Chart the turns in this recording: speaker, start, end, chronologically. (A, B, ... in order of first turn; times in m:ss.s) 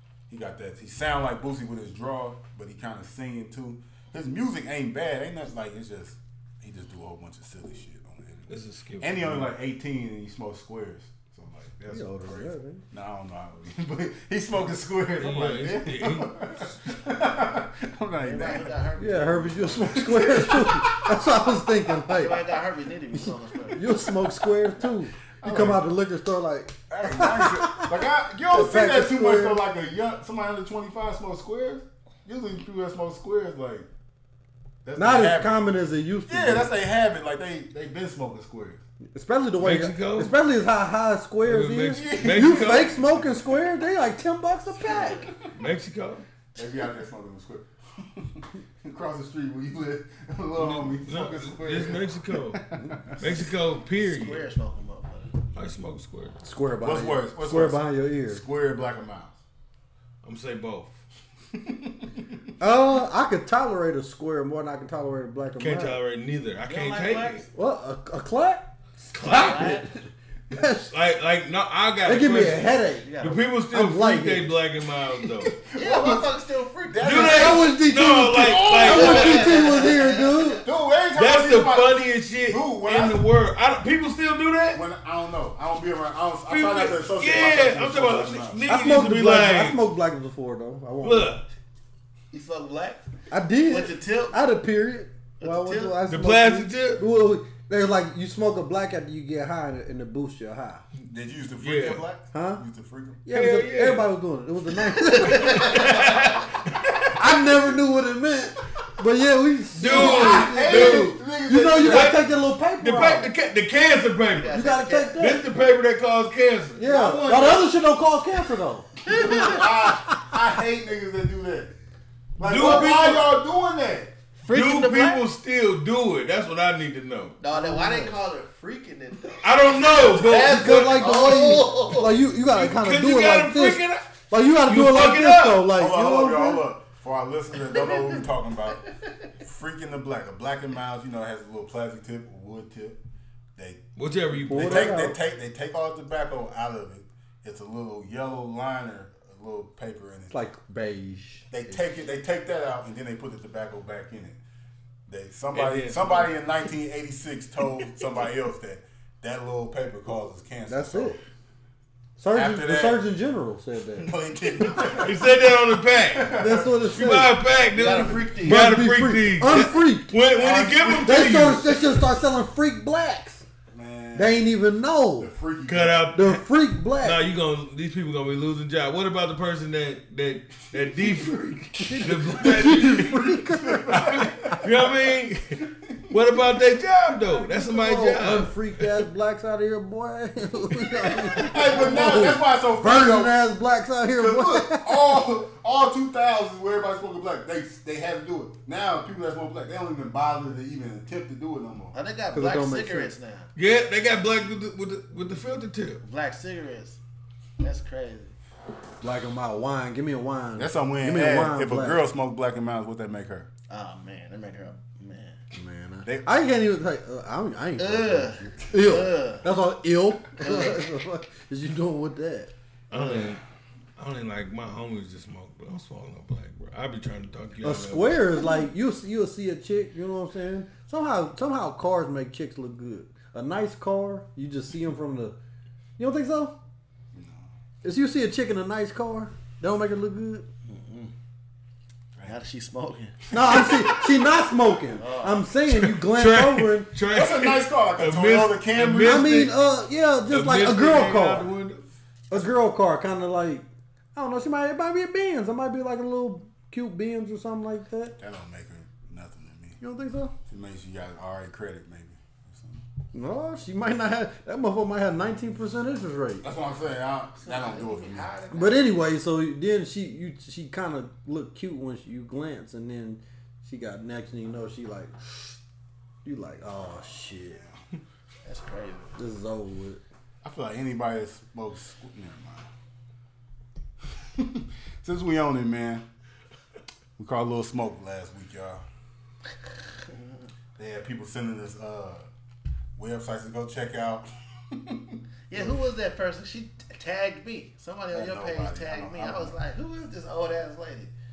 0:00.3-0:18.8 A
0:08.5-0:09.5 B
0:11.9-0:12.8 C
0:15.2-0:16.7 B
0:18.2-0:20.6 D
0:19.0-0:22.4 C
0:19.8-0:21.5 A
0:22.1-0:24.1 D
0:23.7-0:29.6 C
0:25.4-0:25.9 A
0:26.9-0:33.9 A
0:34.8-0:35.7 A
0:35.0-0:36.7 C
0:36.3-0:38.8 A
0:39.1-0:45.3 C
0:39.6-0:40.4 B
0:41.4-0:42.9 B
0:41.9-0:43.6 A
0:44.8-0:45.3 D
0:45.1-0:45.5 A
0:45.5-0:46.2 B
0:46.6-0:53.5 A
0:50.6-0:52.6 B
0:53.2-0:54.4 B
0:54.0-0:55.3 D
0:55.5-0:56.4 B
0:56.4-0:58.4 C
0:56.8-0:59.4 A
1:00.2-1:01.0 B
1:01.5-1:02.4 A
1:02.6-1:06.0 C
1:05.6-1:07.4 B
1:06.6-1:07.5 D
1:07.5-1:08.7 C
1:09.0-1:09.8 B
1:09.2-1:09.9 D
1:09.2-1:10.9 C
1:10.8-1:12.6 B
1:12.0-1:13.1 C
1:12.6-1:13.5 D
1:13.2-1:15.5 B
1:13.7-1:14.5 C
1:15.2-1:16.3 A
1:15.7-1:17.7 D
1:16.9-1:17.7 A
1:17.0-1:19.5 B
1:17.2-1:20.6 C
1:18.3-1:19.5 A
1:18.6-1:20.6 D
1:20.6-1:23.2 A
1:21.1-1:24.8 B
1:24.7-1:28.6 A
1:26.5-1:29.8 B
1:28.7-1:31.4 C
1:31.0-1:31.4 B
1:32.3-1:33.0 D
1:33.3-1:40.8 C
1:33.6-1:34.4 D
1:35.4-1:36.0 D
1:36.1-1:37.0 B
1:41.1-1:43.2 A
1:41.6-1:42.0 B
1:42.3-1:42.6 C
1:43.2-1:45.9 C
1:43.3-1:44.1 B
1:45.3-1:46.2 D
1:45.4-1:46.9 B
1:47.1-1:53.3 C
1:49.7-1:51.2 B
1:49.8-1:52.2 A
1:51.8-1:54.5 B
1:54.3-1:55.4 D
1:54.5-1:55.5 C
1:55.2-1:57.4 B
1:56.8-1:58.9 C
1:56.9-1:57.5 A
1:59.0-2:01.7 A
1:59.0-1:59.7 D
2:02.4-2:04.1 A
2:02.4-2:03.3 B
2:02.6-2:02.9 D
2:04.4-2:05.2 D
2:04.5-2:07.4 B
2:07.4-2:12.3 D
2:07.5-2:08.2 C
2:09.4-2:11.0 B
2:10.3-2:16.6 C
2:12.5-2:15.7 B
2:15.7-2:18.9 A
2:17.7-2:18.9 D
2:19.4-2:23.0 A
2:23.6-2:23.9 A
2:24.0-2:25.0 B
2:24.4-2:30.4 A
2:24.5-2:25.2 C
2:30.3-2:31.9 C
2:31.5-2:34.4 A
2:35.1-2:41.2 A
2:35.5-2:36.4 B
2:40.7-2:41.2 C
2:42.2-2:44.1 C
2:42.3-2:43.0 A
2:44.0-2:45.4 A
2:45.0-2:46.3 B
2:46.0-2:47.0 A
2:46.4-2:47.4 C
2:46.9-2:51.8 B
2:47.7-2:48.8 D
2:48.4-2:50.1 C
2:50.3-2:51.9 A
2:51.0-2:53.4 C
2:53.7-2:54.5 A
2:54.1-2:55.3 C
2:55.2-2:56.1 A
2:55.6-2:56.4 B
2:56.1-2:57.2 C
2:57.0-3:03.2 B
3:00.7-3:04.8 A
3:01.8-3:04.6 C
3:03.9-3:09.0 B
3:05.8-3:06.2 A
3:07.2-3:15.2 C
3:11.3-3:13.4 A
3:14.2-3:21.9 A
3:21.9-3:23.5 D
3:22.3-3:23.1 C
3:23.6-3:26.0 B
3:26.0-3:27.0 D
3:27.6-3:28.3 D
3:29.0-3:32.0 C
3:30.6-3:33.5 A
3:33.7-3:35.4 D
3:35.5-3:42.5 C
3:36.0-3:36.3 A
3:37.8-3:39.5 D
3:40.4-3:40.8 D
3:42.9-3:43.4 B
3:42.9-3:43.3 D
3:44.0-3:48.4 B
3:47.6-3:55.4 C
3:56.0-3:56.6 C
3:57.1-3:57.5 A
3:57.8-4:00.5 C
4:00.7-4:01.1 D
4:02.2-4:03.2 D
4:03.3-4:06.9 C
4:03.4-4:04.2 A
4:04.9-4:05.5 D
4:05.8-4:09.5 B
4:07.0-4:09.5 A
4:09.0-4:11.5 C
4:10.3-4:11.8 B
4:12.3-4:18.2 C
4:18.2-4:19.8 A
4:19.8-4:20.3 C
4:20.5-4:22.8 A
4:23.1-4:26.4 C
4:26.4-4:28.3 A
4:27.4-4:28.9 D
4:28.5-4:35.6 C
4:36.2-4:37.6 C
4:37.2-4:37.8 A
4:38.4-4:39.2 D
4:39.2-4:40.0 C
4:40.4-4:42.7 A
4:44.2-4:46.0 A
4:47.2-4:48.8 A
4:49.9-4:50.3 D
4:50.8-4:52.2 A
4:53.0-4:55.7 A
4:55.5-5:01.1 D
4:58.1-4:59.6 A